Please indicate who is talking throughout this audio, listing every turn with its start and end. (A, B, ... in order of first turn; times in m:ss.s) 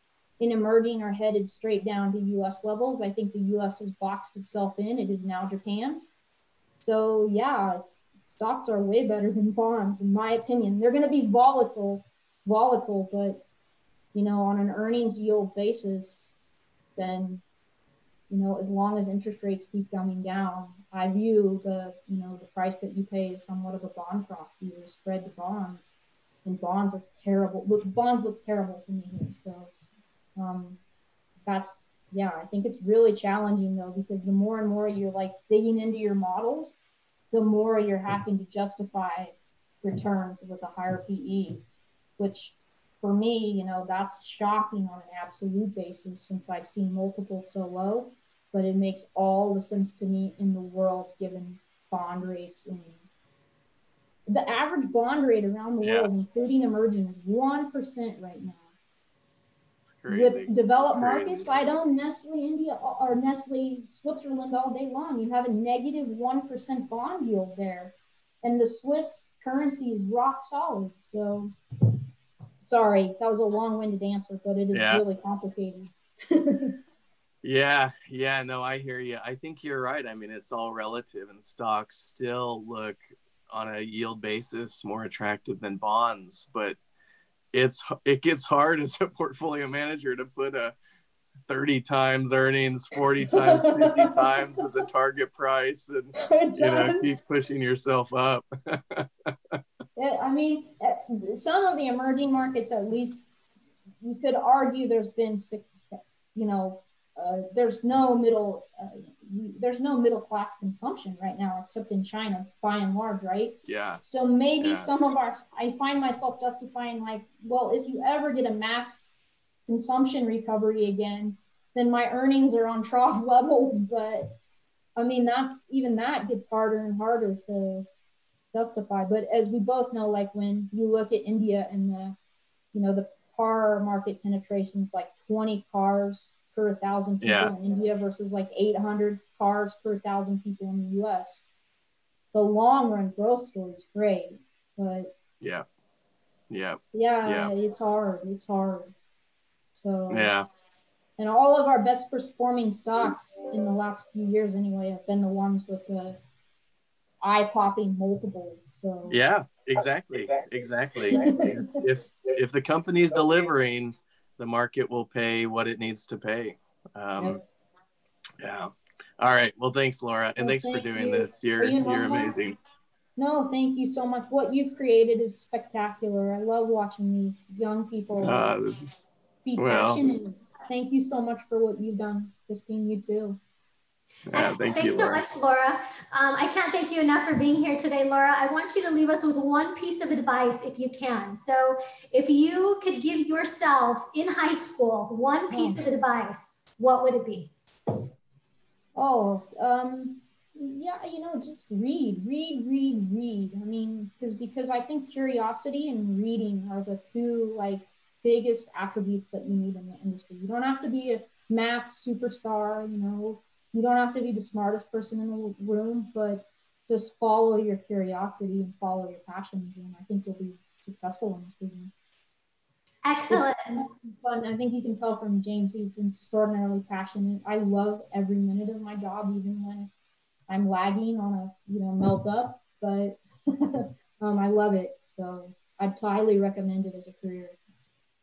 0:00.4-0:06.0 A
0:06.8-0:13.4 A
0:14.1-0:16.3 A
0:17.0-0:17.4 A
0:18.3-0:25.9 A
0:26.4-0:29.7 A
0:30.4-0:30.8 A
0:31.4-0:36.8 A
0:37.3-0:41.6 A
0:42.2-0:53.0 A
0:54.3-0:58.6 A
0:55.8-0:56.1 B
1:00.0-1:01.6 B
1:00.1-1:11.5 A
1:12.6-1:16.7 A
1:14.7-1:15.0 B
1:17.4-1:26.8 B
1:27.5-1:30.7 B
1:31.5-1:39.6 B
1:33.3-1:34.7 A
1:36.2-1:37.1 A
1:40.0-1:43.2 A
1:44.0-1:59.1 A
1:53.6-1:54.0 B
1:54.6-1:54.9 B
1:59.7-2:04.4 A
2:05.0-2:07.9 A
2:08.5-2:12.2 A
2:12.7-2:21.4 A
2:17.2-2:17.5 B
2:22.3-2:25.1 A
2:26.5-2:27.5 B
2:26.9-2:28.9 A
2:29.7-2:30.3 A
2:30.1-2:30.5 B
2:31.2-2:36.2 A
2:37.2-2:39.2 A
2:39.1-2:47.4 B
2:41.0-2:41.8 A
2:48.4-2:52.6 B
2:50.4-2:52.4 A
2:53.2-2:58.5 A
2:58.2-3:00.0 B
2:59.4-3:03.4 A
3:04.3-3:05.2 B
3:04.3-3:17.5 C
3:15.5-3:15.8 A
3:18.9-3:41.9 A
3:43.0-3:43.9 C
3:43.3-3:49.9 A
3:50.5-3:57.6 A